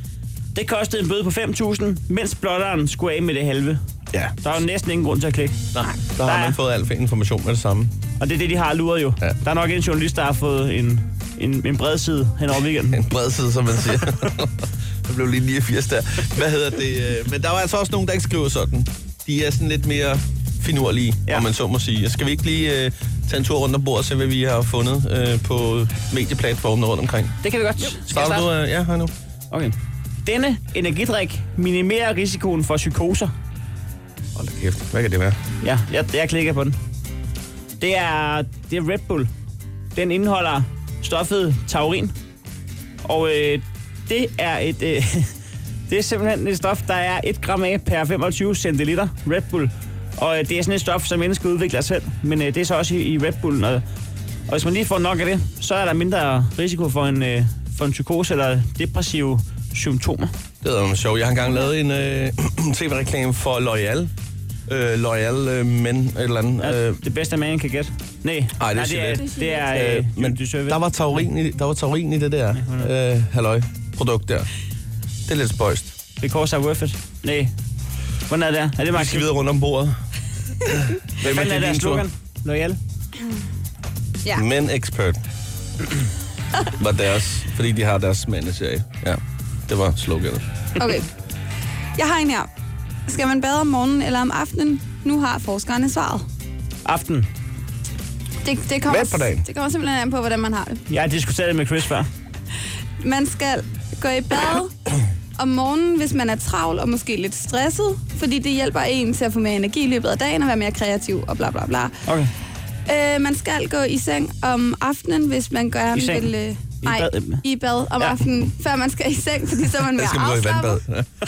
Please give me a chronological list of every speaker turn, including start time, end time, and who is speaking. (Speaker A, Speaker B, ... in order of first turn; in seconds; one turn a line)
Speaker A: 0.5-3.8
Speaker A: 4.4-5.6
Speaker B: 5.7-7.9
Speaker A: 6.2-6.6
Speaker A: 8.2-13.0
Speaker B: 12.9-27.4
Speaker A: 27.4-28.5
Speaker B: 28.0-29.1
Speaker A: 30.2-33.3
Speaker B: 34.3-35.4
Speaker A: 35.6-36.8
Speaker A: 37.8-39.3
Speaker A: 39.9-42.1
Speaker A: 43.0-45.3
Speaker A: 45.9-53.8
Speaker A: 54.5-60.3
Speaker B: 60.6-64.1
Speaker B: 64.7-67.0
Speaker A: 66.6-71.2
Speaker B: 68.6-74.5
Speaker C: 69.2-69.6
Speaker A: 72.5-72.9
Speaker B: 75.3-76.0
Speaker A: 76.2-77.5
Speaker A: 78.3-79.3
Speaker B: 78.9-80.0
Speaker B: 80.7-82.0
Speaker A: 81.2-82.8
Speaker B: 84.3-85.2
Speaker B: 86.8-90.4
Speaker C: 90.8-91.1
Speaker C: 92.0-92.5
Speaker C: 93.1-96.2
Speaker A: 96.8-97.3
Speaker C: 98.4-100.8
Speaker B: 98.9-99.5
Speaker A: 100.9-102.1
Speaker C: 103.0-104.7
Speaker C: 105.4-111.9
Speaker C: 112.9-120.8
Speaker A: 115.9-116.3
Speaker A: 116.8-117.4
Speaker B: 119.9-121.1